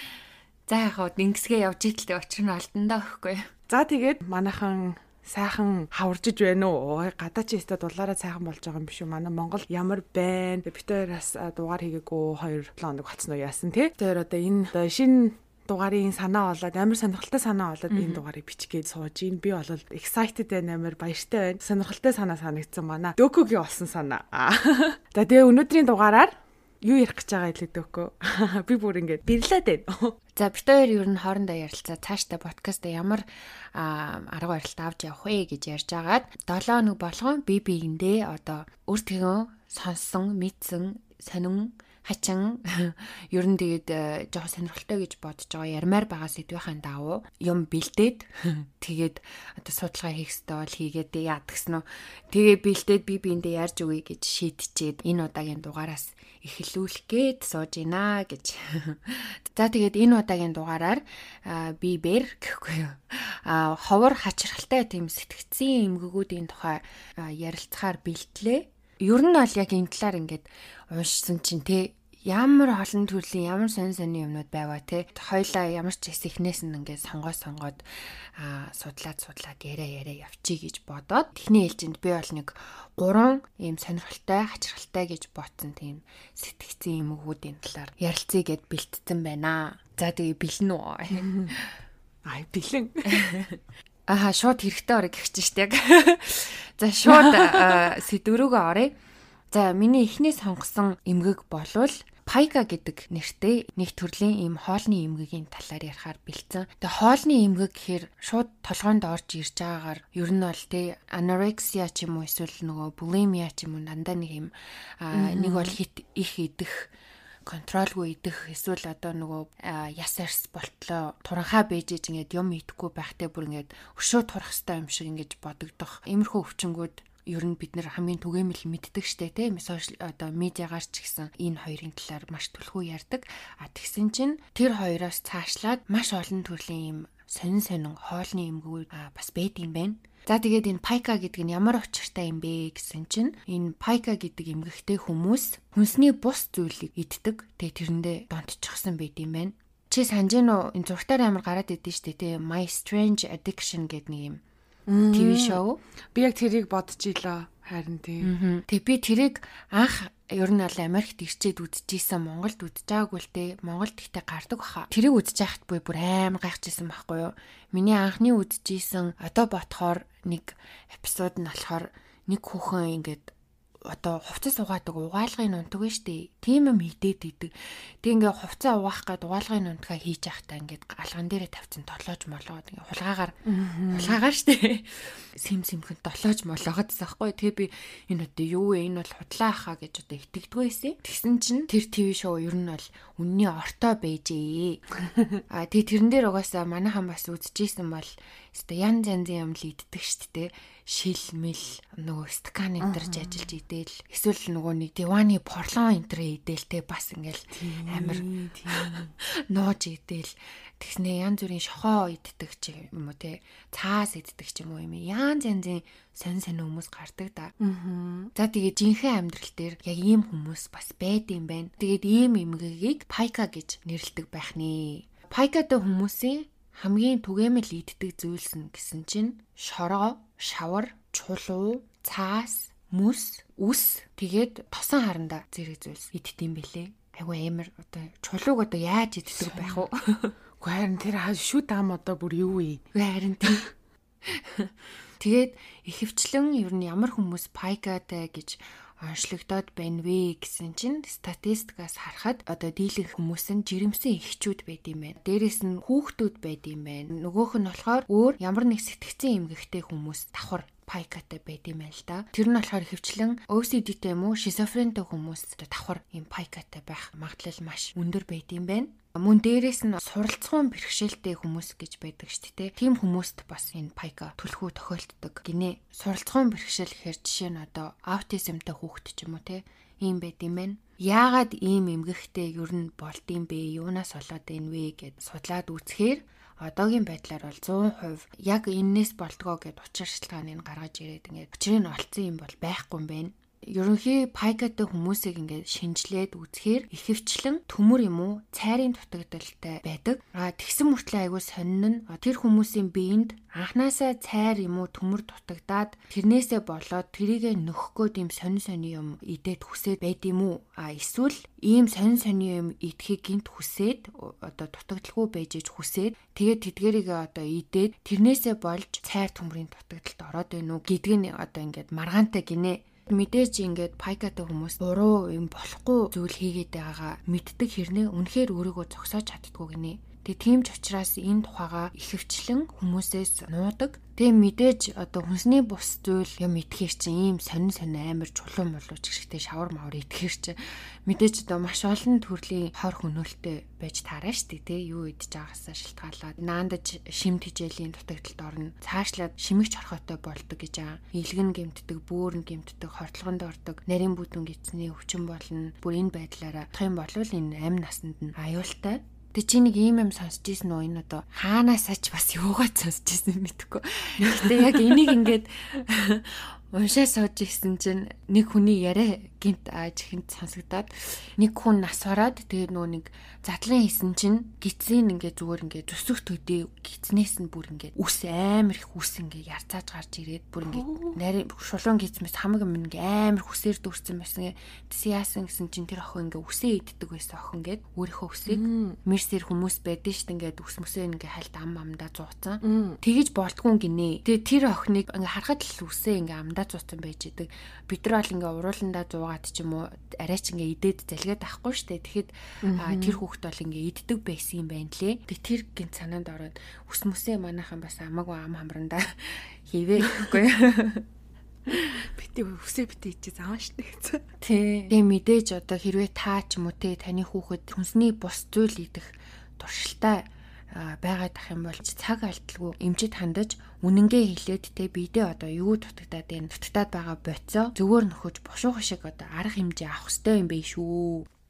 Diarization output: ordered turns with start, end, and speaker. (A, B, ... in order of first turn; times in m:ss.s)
0:00.7-0:03.5 A
0:03.7-0:30.2 B
0:17.9-0:18.2 A
0:30.4-1:31.7 A
1:31.1-1:31.5 B
1:32.2-1:33.3 B
1:33.0-1:39.0 A
1:37.0-1:37.9 B
1:39.5-1:56.9 A
1:55.1-1:55.8 B
1:57.5-2:34.4 A
2:34.9-2:35.6 B
2:35.1-2:35.8 A
2:36.1-2:38.3 B
2:38.2-2:53.3 A
2:53.8-2:57.5 A
2:58.0-3:03.4 A
3:03.4-3:04.2 B
3:03.9-3:14.8 A
3:15.5-3:37.5 A
3:22.8-3:23.5 B
3:27.5-3:29.1 B
3:37.6-3:38.3 B
3:38.4-4:00.4 A
3:59.4-3:59.8 B
4:00.6-4:02.9 B
4:02.9-4:03.7 A
4:04.2-6:51.1 A
6:04.2-6:05.1 B
6:20.7-6:21.2 B
6:28.5-6:29.0 B
6:32.6-6:33.0 B
6:42.6-6:43.2 B
6:51.8-6:54.3 B
6:54.4-7:11.3 A